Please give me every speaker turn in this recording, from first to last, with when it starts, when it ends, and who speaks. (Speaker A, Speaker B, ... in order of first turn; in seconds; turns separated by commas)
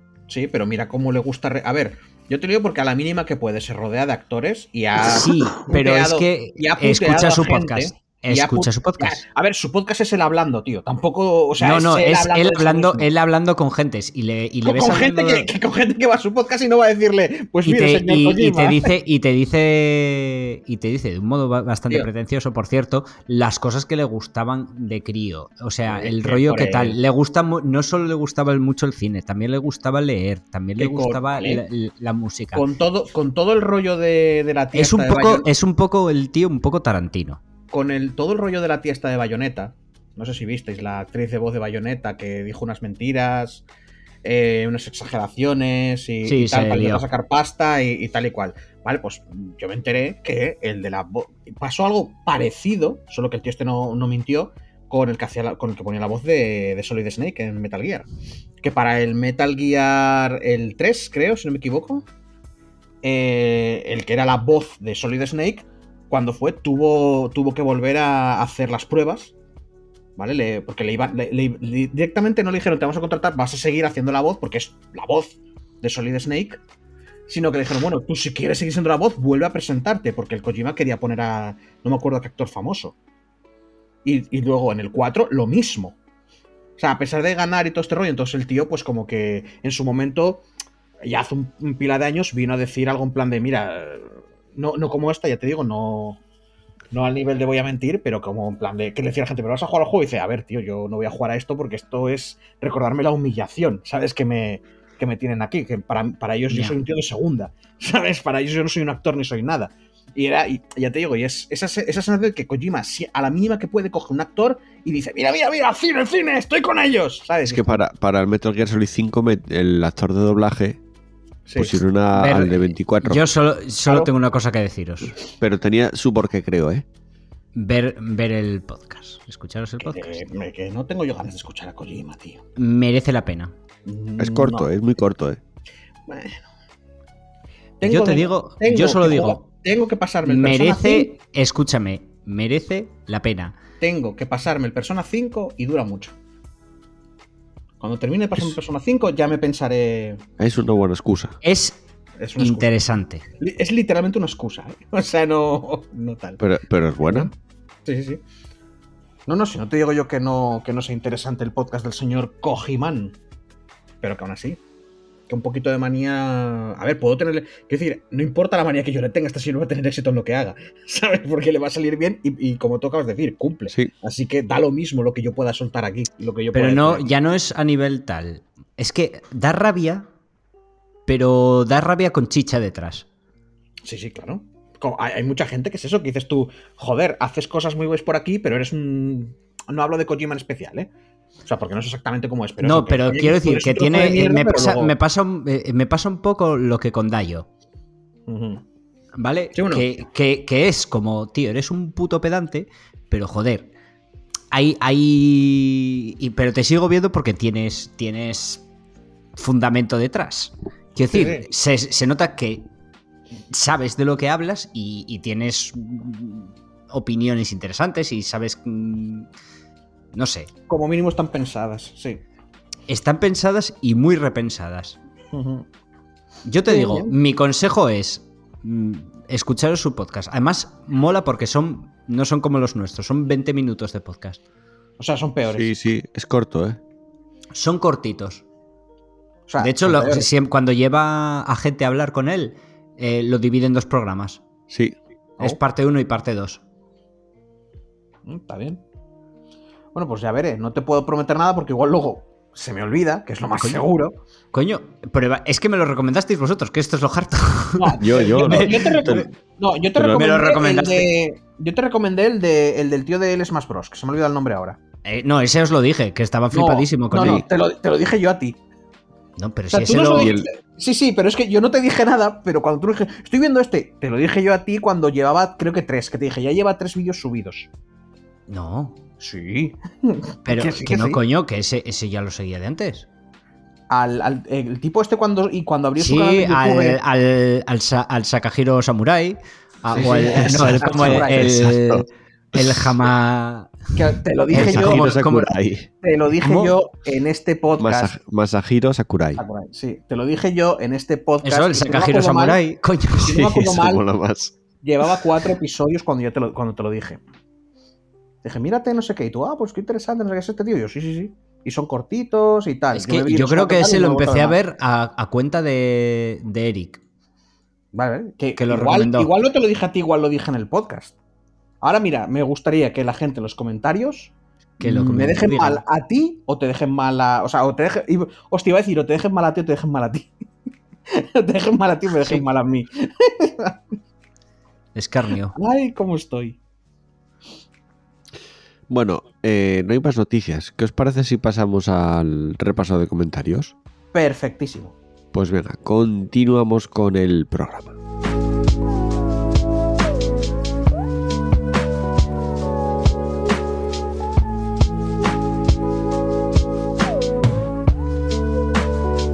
Speaker A: 0.3-13.1, Speaker B: 5.0-9.2, Speaker B: 11.6-15.5, Speaker A: 14.7-18.9, Speaker B: 17.7-32.6, Speaker A: 25.9-27.0, Speaker A: 30.8-31.6, Speaker A: 32.5-35.5, Speaker B: 34.8-37.4, Speaker A: 37.7-43.6, Speaker A: 44.2-58.1, Speaker B: 46.2-47.0, Speaker A: 58.6-62.0, Speaker A: 63.0-69.3, Speaker A: 70.2-76.6, Speaker A: 77.3-83.0, Speaker A: 84.0-86.0, Speaker A: 86.8-90.4, Speaker A: 91.0-96.2, Speaker A: 96.9-117.8, Speaker B: 106.5-106.8, Speaker C: 117.5-120.8, Speaker A: 121.5-121.8, Speaker C: 121.6-123.2, Speaker B: 122.1-125.2, Speaker C: 125.4-126.8, Speaker B: 127.5-130.2, Speaker A: 129.8-132.4, Speaker B: 132.6-133.5, Speaker A: 133.9-134.7, Speaker C: 134.2-135.4, Speaker A: 136.1-136.4, Speaker A: 137.8-141.1, Speaker B: 137.8-139.4, Speaker B: 140.2-143.6, Speaker A: 143.8-146.1, Speaker A: 147.8-150.2, Speaker C: 150.4-151.4, Speaker B: 151.4-151.8, Speaker A: 152.2-152.7, Speaker B: 152.4-153.2, Speaker A: 153.4-156.4, Speaker C: 156.4-157.3, Speaker A: 157.1-157.3, Speaker A: 157.9-158.2, Speaker A: 159.3-163.2, Speaker A: 164.0-164.6, Speaker A: 165.3-177.1, Speaker B: 176.5-180.1, Speaker B: 181.1-183.1, Speaker A: 183.9-190.9, Speaker A: 191.4-194.9, Speaker B: 192.6-197.5, Speaker A: 198.3-198.6, Speaker B: 199.2-203.7, Speaker A: 199.5-199.9, Speaker B: 204.5-208.7, Speaker B: 209.4-212.7, Speaker A: 211.1-211.5, Speaker B: 213.5-219.3, Speaker B: 220.1-220.5, Speaker A: 220.7-222.2, Speaker B: 222.9-225.0, Speaker A: 225.3-225.7, Speaker B: 226.5-234.4, Speaker A: 226.7-227.2, Speaker A: 235.0-235.7, Speaker C: 235.5-236.8, Speaker B: 237.6-238.4, Speaker A: 239.5-240.3, Speaker B: 239.6-244.4, Speaker C: 244.7-245.0, Speaker B: 245.4-246.6, Speaker A: 248.3-248.8, Speaker A: 249.9-254.2, Speaker B: 253.6-253.8, Speaker B: 254.5-259.3, Speaker A: 257.8-264.8, Speaker C: 258.0-259.3, Speaker C: 259.9-260.2, Speaker B: 260.1-261.1, Speaker B: 265.1-267.4, Speaker A: 266.5-268.6, Speaker C: 267.2-267.4, Speaker B: 269.4-270.3, Speaker A: 269.7-277.7, Speaker C: 270.2-270.5, Speaker B: 278.5-279.0, Speaker A: 279.2-281.2, Speaker B: 280.5-283.1, Speaker A: 283.9-287.0, Speaker B: 286.0-294.0, Speaker A: 289.9-291.6, Speaker C: 290.4-292.9, Speaker A: 294.0-295.2, Speaker B: 294.5-295.5, Speaker C: 294.5-295.9, Speaker A: 296.0-298.1, Speaker B: 296.4-296.8, Speaker C: 297.8-299.4, Speaker A: 299.4-302.6, Speaker B: 301.4-303.4, Speaker A: 303.2-304.0, Speaker C: 303.3-304.6, Speaker A: 304.8-307.2, Speaker A: 308.4-314.6, Speaker B: 312.9-317.0, Speaker A: 317.9-321.1, Speaker B: 318.6-319.3, Speaker A: 321.8-330.3, Speaker B: 324.8-325.8, Speaker A: 331.1-333.8, Speaker B: 334.9-335.6, Speaker A: 335.6-336.6, Speaker C: 338.9-343.8, Speaker A: 344.1-344.9, Speaker C: 345.3-348.0